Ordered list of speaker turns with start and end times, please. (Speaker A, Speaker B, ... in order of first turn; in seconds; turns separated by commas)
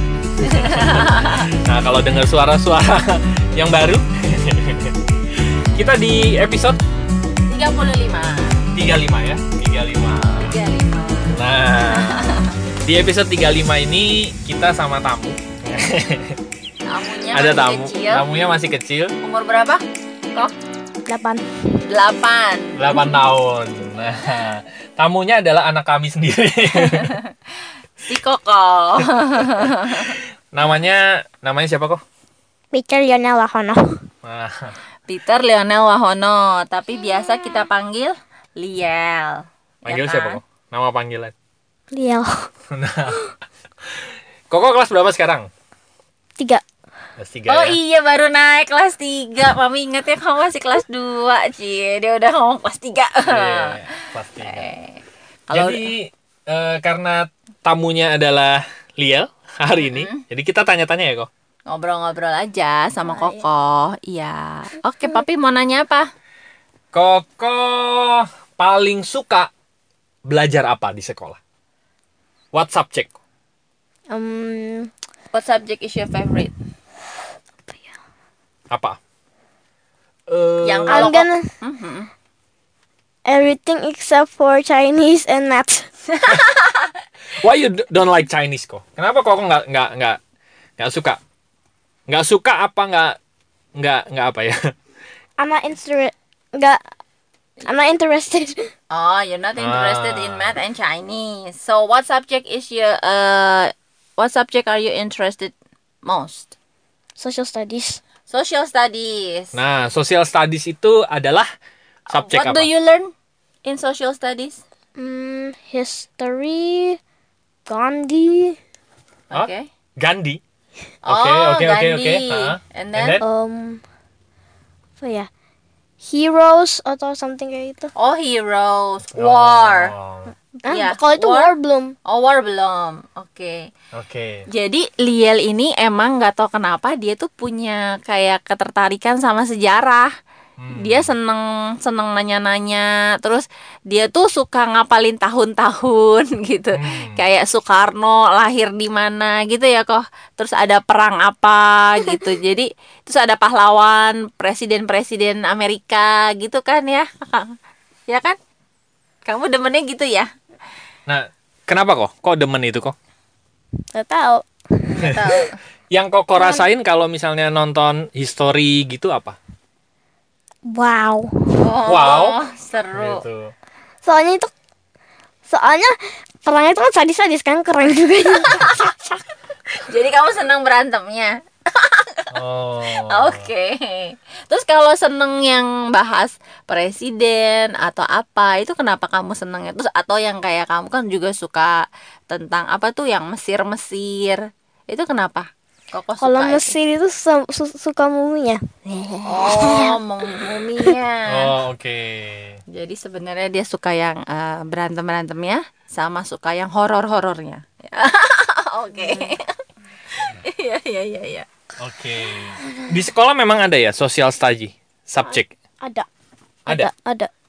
Speaker A: 0.4-6.8, Speaker B: 0.4-1.5, Speaker B: 7.5-8.7, Speaker A: 8.7-10.6, Speaker B: 10.2-12.5, Speaker A: 11.3-16.4, Speaker B: 16.9-18.2, Speaker A: 17.3-19.1, Speaker B: 19.2-19.8, Speaker C: 21.1-21.4, Speaker B: 21.8-22.8, Speaker A: 22.7-27.2, Speaker B: 26.7-27.3, Speaker B: 28.0-30.2, Speaker A: 29.6-32.0, Speaker C: 32.7-34.0, Speaker A: 34.2-34.8, Speaker B: 35.1-40.4, Speaker A: 39.8-41.3, Speaker C: 41.9-42.5, Speaker A: 42.7-43.2, Speaker A: 43.9-45.5, Speaker A: 47.2-47.8, Speaker B: 47.5-55.9, Speaker A: 53.2-54.7, Speaker A: 55.5-61.3, Speaker B: 59.8-60.2, Speaker B: 61.7-66.1, Speaker C: 63.0-63.4, Speaker A: 66.9-69.5, Speaker A: 70.2-71.4, Speaker A: 72.5-73.1, Speaker C: 74.1-74.9, Speaker B: 75.3-76.5, Speaker A: 78.7-79.0, Speaker A: 80.3-81.1, Speaker B: 80.6-82.1, Speaker C: 80.9-81.5, Speaker C: 83.2-85.9, Speaker B: 86.1-86.9, Speaker A: 87.3-90.2, Speaker A: 90.8-91.2, Speaker A: 92.1-93.2, Speaker A: 93.8-94.7, Speaker C: 95.4-96.8, Speaker C: 97.6-98.7, Speaker B: 98.9-106.5, Speaker A: 99.6-100.6, Speaker C: 107.2-108.0, Speaker B: 108.3-109.6, Speaker A: 109.5-111.5, Speaker A: 112.1-112.7, Speaker B: 112.1-113.1, Speaker B: 113.6-114.6, Speaker C: 115.0-117.0, Speaker C: 117.7-118.6, Speaker B: 119.3-119.7, Speaker A: 119.3-120.4, Speaker B: 121.0-123.2, Speaker A: 121.0-123.2, Speaker C: 123.2-123.8, Speaker C: 125.0-125.3, Speaker C: 126.0-127.9, Speaker B: 128.0-129.9, Speaker A: 129.1-130.3, Speaker C: 130.6-131.9, Speaker B: 130.7-131.5, Speaker B: 132.1-133.7, Speaker A: 133.9-134.4, Speaker B: 134.5-140.1, Speaker A: 140.6-141.1, Speaker B: 140.7-157.5, Speaker A: 146.7-147.2, Speaker B: 158.1-158.4, Speaker B: 159.2-160.3, Speaker A: 161.1-162.9, Speaker C: 163.9-165.4, Speaker B: 164.9-165.5, Speaker A: 165.9-169.4, Speaker C: 166.4-166.7, Speaker C: 170.7-171.6, Speaker B: 171.6-173.2, Speaker A: 171.8-172.4, Speaker A: 172.9-173.5, Speaker C: 174.0-174.5, Speaker C: 175.5-179.2, Speaker B: 179.8-182.3, Speaker A: 182.3-183.5, Speaker B: 182.9-196.7, Speaker C: 196.2-200.9, Speaker B: 199.2-201.5, Speaker A: 201.3-202.6, Speaker B: 202.7-209.5, Speaker B: 210.1-211.5, Speaker A: 211.8-215.5, Speaker C: 215.3-216.1, Speaker C: 216.7-217.3